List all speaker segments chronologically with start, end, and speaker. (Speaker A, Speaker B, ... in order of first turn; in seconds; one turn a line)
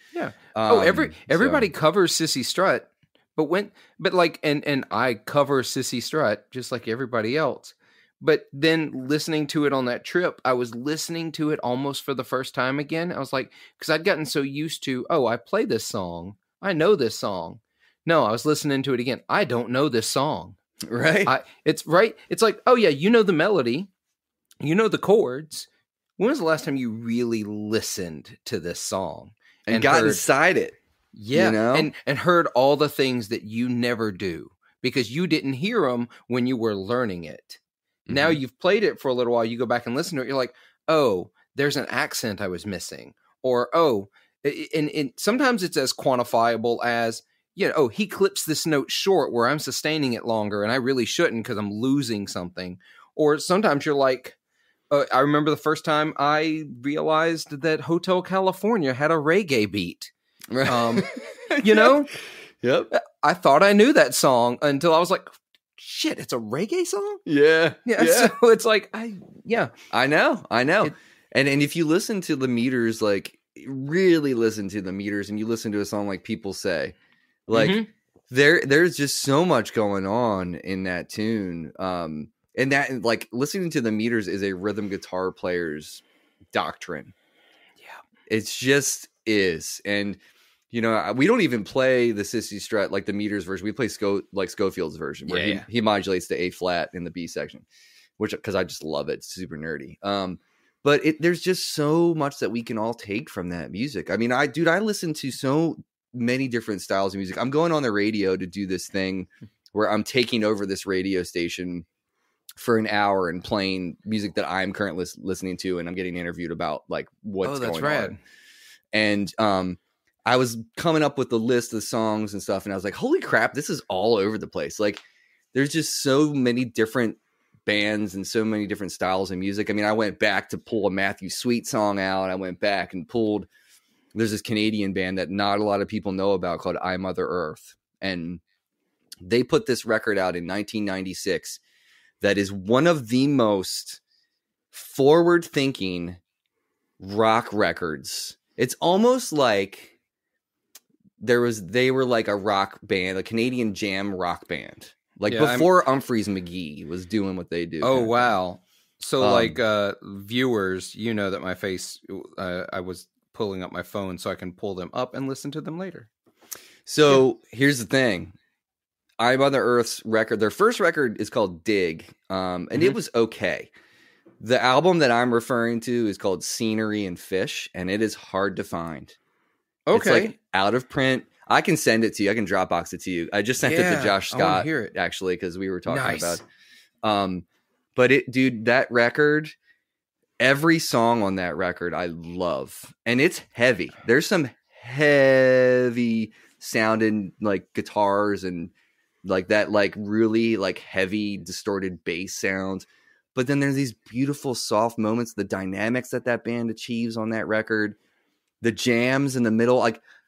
Speaker A: 0.1-20.6
Speaker B: 0.5-1.7
Speaker B: 20.9-21.3
Speaker A: 21.3-23.9
Speaker A: 24.6-30.3
Speaker B: 29.7-30.8
Speaker A: 31.1-54.4
Speaker B: 31.3-31.9
Speaker B: 38.1-38.4
Speaker A: 54.9-60.1
Speaker B: 60.5-62.0
Speaker A: 60.7-61.1
Speaker A: 61.6-62.1
Speaker B: 62.6-62.9
Speaker A: 62.9-67.2
Speaker B: 67.3-68.3
Speaker A: 67.8-69.7
Speaker B: 69.9-77.0
Speaker B: 77.5-77.8
Speaker A: 77.5-77.9
Speaker B: 78.3-87.1
Speaker B: 88.3-90.2
Speaker B: 90.7-97.7
Speaker A: 95.3-95.7
Speaker B: 98.2-111.9
Speaker B: 112.6-118.2
Speaker A: 117.4-118.2
Speaker B: 118.9-125.0
Speaker B: 125.5-133.5
Speaker B: 134.1-138.4
Speaker B: 139.2-141.6
Speaker B: 142.2-144.0
Speaker B: 144.7-146.2
Speaker B: 147.0-149.9
Speaker B: 151.2-158.3
Speaker A: 155.3-155.7
Speaker A: 157.8-166.1
Speaker B: 159.2-159.6
Speaker B: 166.9-168.3
Speaker B: 169.2-173.7
Speaker B: 174.4-179.2
Speaker A: 179.9-180.3
Speaker B: 179.9-186.4
Speaker A: 183.6-184.9
Speaker A: 185.9-186.4
Speaker B: 187.0-189.6
Speaker B: 190.4-198.7
Speaker B: 199.2-208.0
Speaker B: 208.6-210.0